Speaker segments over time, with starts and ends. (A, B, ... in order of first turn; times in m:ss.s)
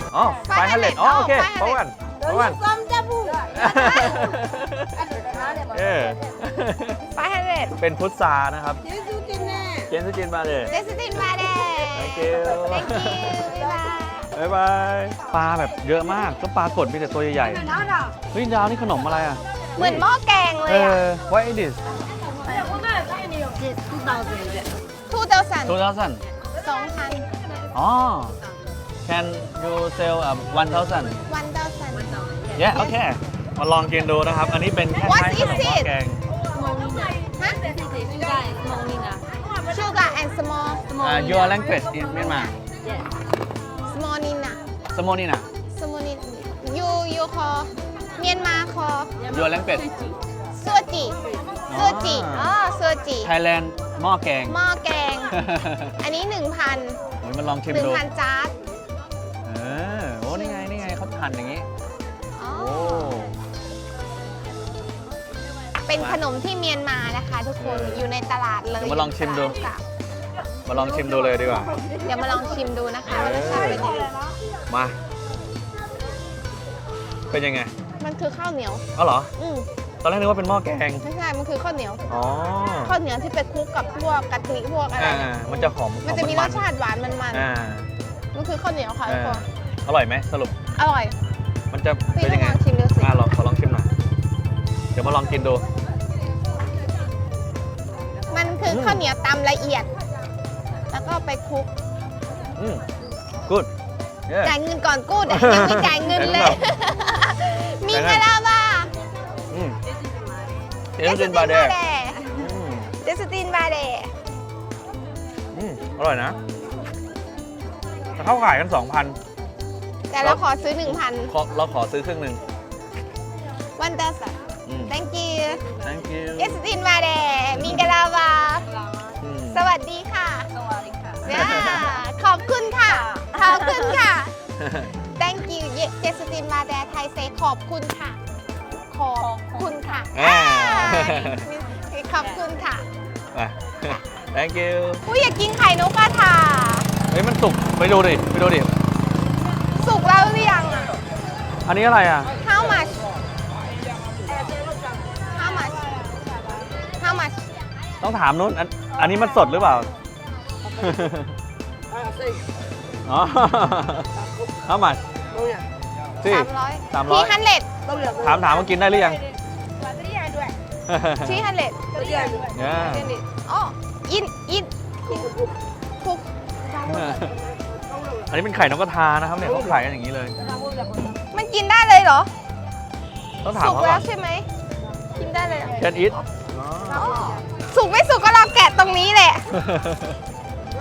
0:00.1-0:02.6 A
0:00.4-0:01.8 B
0:02.2-0:03.6 C
0:03.5-0:05.0 A
0:05.7-0:07.0 A
0:07.1-0:07.8 B
0:07.8-0:08.8 A
0:08.9-0:09.9 C
0:09.9-0:10.7 A
0:10.7-0:14.3 B
0:11.9-0:13.4 A
0:14.3-0:17.7 A
0:18.3-0:20.0 A
0:19.8-0:21.0 B
0:20.7-0:21.8 A
0:23.6-0:24.7 C
0:25.1-0:25.8 B
0:25.6-0:26.2 A
0:26.6-0:27.3 B
0:27.7-0:28.4 A
0:29.1-0:31.2 A
0:31.3-0:32.2 B
0:32.6-0:36.2 A
0:35.0-0:35.9 B
0:36.5-0:39.2 C
0:39.6-0:40.9 B
0:41.0-0:42.5 A
0:41.0-0:41.5 C
0:43.9-0:44.6 B
0:44.9-0:45.4 A
0:45.7-0:49.2 B
0:49.3-0:49.9 A
0:50.6-0:51.2 B
0:51.7-0:52.5 A
0:51.7-0:53.3 B
0:53.2-0:54.6 A
0:54.4-0:55.4 B
0:55.3-0:55.9 A
0:56.0-0:57.0 B
0:57.2-0:58.0 A
0:57.7-0:58.5 B
0:59.4-1:01.6 A
1:00.3-1:00.7 B
1:02.4-1:03.2 B
1:02.5-1:03.4 A
1:05.9-1:09.8 B
1:07.6-1:08.0 A
1:08.8-1:09.6 A
1:10.7-1:11.8 A
1:12.0-1:14.1 B
1:13.1-1:13.9 A
1:14.7-1:15.0 A
1:17.3-1:17.7 A
1:18.0-1:18.8 B
1:18.9-1:19.3 A
1:19.4-1:19.7 B
1:20.0-1:21.0 A
1:21.0-1:22.0 B
1:22.1-1:22.9 A
1:22.8-1:27.5 B
1:25.0-1:26.6 A
1:27.3-1:27.9 A
1:28.3-1:29.4 B
1:29.1-1:30.6 A
1:30.8-1:31.2 B
1:31.7-1:33.9 A
1:32.1-1:33.1 B
1:34.9-1:35.6 A
1:38.3-1:39.9 B
1:38.6-1:39.0 A
1:40.9-1:41.7 B
1:42.6-1:42.8 A
1:44.3-1:44.5 A
1:44.4-1:48.9 B
1:45.3-1:46.6 A
1:47.9-1:48.2 A
1:49.5-1:49.8 A
1:51.0-1:51.8 A
1:51.0-1:52.3 B
1:52.3-1:52.9 A
1:53.0-1:54.1 B
1:55.5-1:56.4 A
1:58.2-1:59.2 A
2:00.1-2:01.3 B
2:00.2-2:02.4 A
2:03.8-2:05.6 B
2:04.7-2:04.9 A
2:05.8-2:06.6 A
2:06.3-2:08.7 B
2:07.6-2:07.9 A
2:09.2-2:09.6 A
2:09.5-2:10.5 B
2:10.6-2:11.2 C
2:11.2-2:14.3 B
2:11.2-2:11.8 A
2:12.9-2:13.3 C
2:14.6-2:14.9 A
2:15.2-2:18.2 B
2:18.9-2:22.8 B
2:19.2-2:19.7 C
2:20.1-2:21.5 A
2:23.3-2:25.0 A
2:25.0-2:26.9 B
2:27.1-2:28.7 A
2:29.8-2:31.0 B
2:31.6-2:32.3 A
2:32.4-2:33.0 B
2:35.3-2:35.9 B
2:37.0-2:37.4 B
2:38.0-2:39.9 A
2:40.7-2:41.3 A
2:43.0-2:44.1 A
2:44.6-2:45.0 A
2:46.2-2:47.3 A
2:46.2-2:47.7 B
2:48.2-2:49.2 A
2:50.9-2:51.4 A
2:51.2-2:55.3 B
2:52.0-2:52.5 C
2:52.5-2:53.1 A
2:56.8-2:57.3 A
2:58.3-3:00.4 A
3:01.3-3:02.3 B
3:03.4-3:04.0 A
3:03.5-3:04.5 B
3:05.2-3:05.8 B
3:05.8-3:07.1 A
3:06.9-3:09.5 B
3:09.5-3:10.1 A